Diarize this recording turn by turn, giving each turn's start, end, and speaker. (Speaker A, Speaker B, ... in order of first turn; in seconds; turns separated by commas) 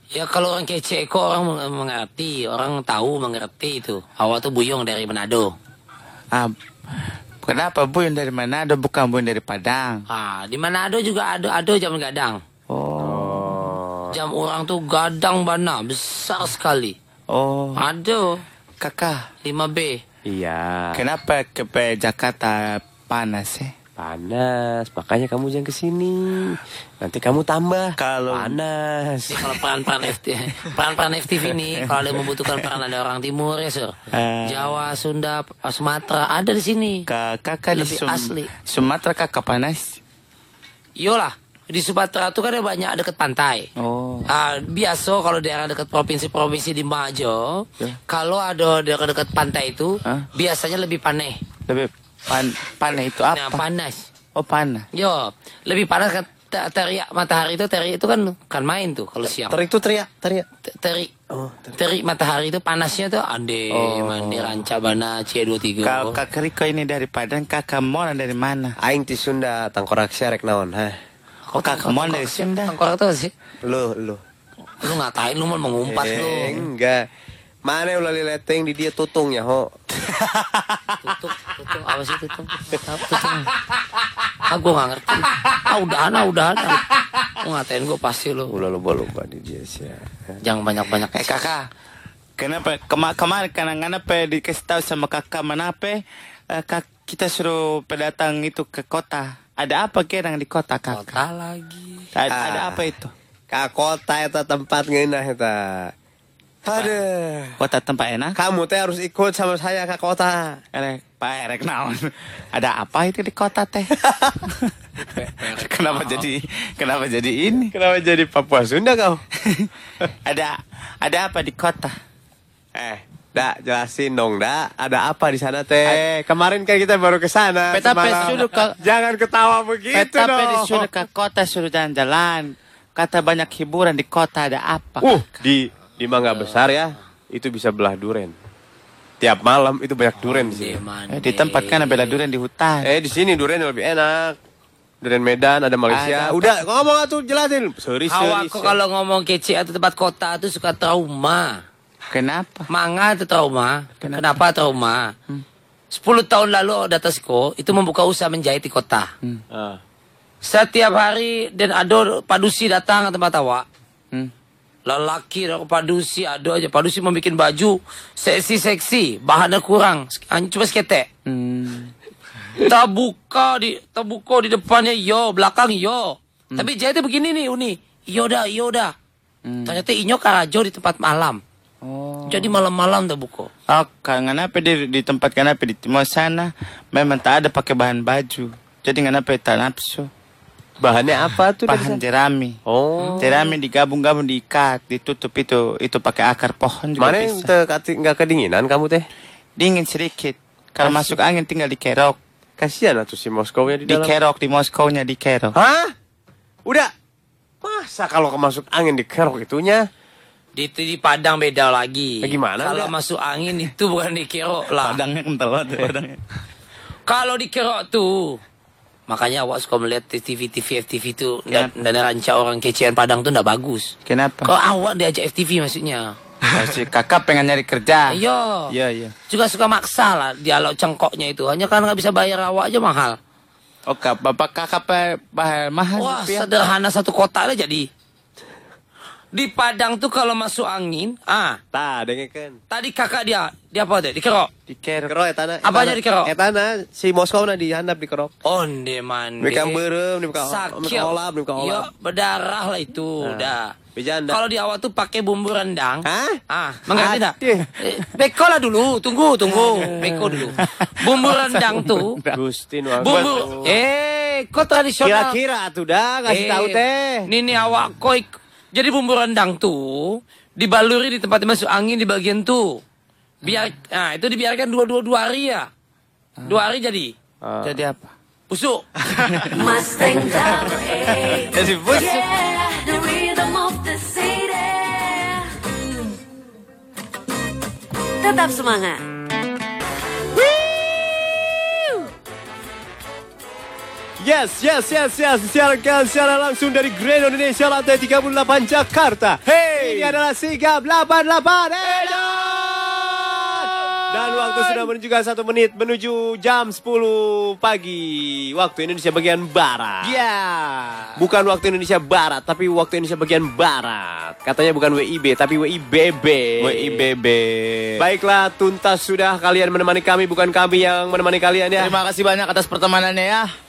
Speaker A: 0.1-5.5, Speaker B: 7.4-10.0, Speaker A: 10.1-12.4, Speaker B: 12.7-13.7, Speaker C: 13.0-14.1, Speaker A: 14.1-16.9, Speaker B: 17.3-17.8, Speaker A: 17.8-18.4, Speaker B: 18.8-19.2, Speaker A: 19.4-20.0, Speaker C: 20.2-21.0, Speaker B: 20.9-23.7, Speaker C: 24.0-29.6, Speaker B: 28.0-28.6, Speaker A: 29.3-37.1, Speaker B: 34.1-34.8, Speaker B: 37.1-40.0, Speaker A: 37.7-38.5, Speaker A: 41.0-43.7, Speaker B: 43.8-44.3, Speaker A: 44.3-51.4, Speaker B: 51.7-53.6, Speaker A: 53.3-54.0, Speaker B: 54.3-54.9, Speaker A: 54.9-59.6, Speaker C: 59.4-60.5, Speaker A: 60.6-61.1, Speaker C: 61.3-61.8, Speaker A: 61.7-66.2, Speaker B: 63.8-64.5, Speaker B: 65.8-68.7, Speaker C: 68.8-70.9, Speaker A: 71.5-73.3, Speaker B: 71.6-72.7, Speaker C: 73.6-74.2, Speaker A: 74.8-76.6, Speaker C: 75.8-77.0, Speaker C: 77.6-79.7, Speaker B: 80.0-81.0, Speaker A: 81.0-83.5, Speaker A: 84.4-86.8, Speaker A: 87.4-88.5, Speaker C: 88.5-90.4, Speaker A: 90.4-91.3, Speaker B: 91.1-91.7, Speaker B: 92.4-101.2, Speaker A: 100.9-102.1, Speaker B: 102.1-103.1, Speaker C: 102.3-102.9, Speaker C: 103.5-105.9, Speaker C: 106.6-107.6, Speaker B: 107.6-108.3, Speaker C: 108.3-110.6, Speaker B: 110.7-113.9, Speaker C: 114.0-114.3, Speaker B: 114.4-114.7, Speaker A: 115.1-116.2, Speaker B: 115.4-117.7, Speaker C: 117.7-119.2, Speaker B: 119.4-119.7, Speaker B: 120.2-121.9, Speaker C: 122.7-130.9, Speaker B: 127.7-128.7, Speaker B: 129.9-135.5, Speaker C: 135.0-138.3, Speaker A: 136.3-136.6, Speaker C: 139.2-140.8, Speaker A: 140.2-142.2, Speaker B: 141.1-142.9, Speaker C: 142.8-144.3, Speaker C: 145.0-148.8, Speaker B: 145.9-146.6, Speaker A: 148.1-151.6, Speaker B: 152.1-152.7, Speaker A: 152.7-155.1, Speaker B: 154.0-154.3, Speaker A: 155.9-159.1, Speaker C: 159.5-159.8, Speaker A: 160.4-163.6, Speaker A: 164.8-171.1, Speaker B: 171.2-171.9, Speaker A: 172.6-178.9, Speaker B: 179.4-179.8, Speaker A: 179.6-181.4, Speaker B: 181.8-182.6, Speaker A: 182.3-183.5, Speaker B: 183.7-190.1, Speaker C: 190.8-192.0, Speaker B: 191.7-192.6, Speaker C: 192.7-193.5, Speaker B: 193.2-197.5, Speaker C: 197.0-199.1, Speaker B: 199.6-202.2, Speaker C: 200.8-201.2, Speaker C: 202.6-204.1, Speaker B: 203.8-205.5, Speaker C: 205.5-205.9, Speaker C: 206.7-206.9, Speaker C: 207.6-209.8, Speaker A: 210.6-215.0, Speaker C: 212.2-212.9, Speaker B: 214.8-216.2, Speaker A: 217.1-218.4, Speaker A: 219.1-223.9, Speaker B: 224.1-224.5, Speaker A: 224.4-226.1, Speaker B: 226.5-228.2, Speaker A: 228.1-228.7, Speaker B: 228.7-229.1, Speaker A: 229.3-233.2, Speaker B: 233.9-236.5, Speaker A: 236.0-237.9, Speaker A: 239.3-241.6, Speaker C: 241.7-242.6, Speaker A: 242.7-244.5, Speaker B: 244.7-245.1, Speaker C: 245.0-248.3, Speaker A: 245.6-246.3, Speaker A: 248.4-249.8, Speaker C: 249.4-251.9, Speaker A: 250.3-253.7, Speaker C: 253.2-254.4, Speaker A: 254.3-262.2, Speaker C: 256.0-256.4, Speaker C: 256.9-257.7, Speaker C: 259.5-260.6, Speaker B: 259.6-262.4, Speaker C: 262.3-263.8, Speaker B: 263.0-263.7, Speaker A: 263.0-265.4, Speaker C: 265.0-267.3, Speaker A: 266.3-272.8, Speaker A: 273.4-275.7, Speaker A: 276.4-277.1, Speaker C: 277.4-277.8, Speaker B: 277.6-278.1, Speaker A: 278.5-278.8, Speaker B: 279.0-282.2, Speaker D: 279.5-286.2, Speaker D: 288.2-289.0, Speaker C: 290.5-291.0, Speaker C: 294.2-310.2, Speaker B: 299.7-300.1, Speaker B: 301.9-304.8, Speaker B: 310.0-311.1, Speaker C: 311.2-317.1, Speaker B: 316.6-318.0, Speaker C: 318.0-321.9, Speaker B: 321.8-323.5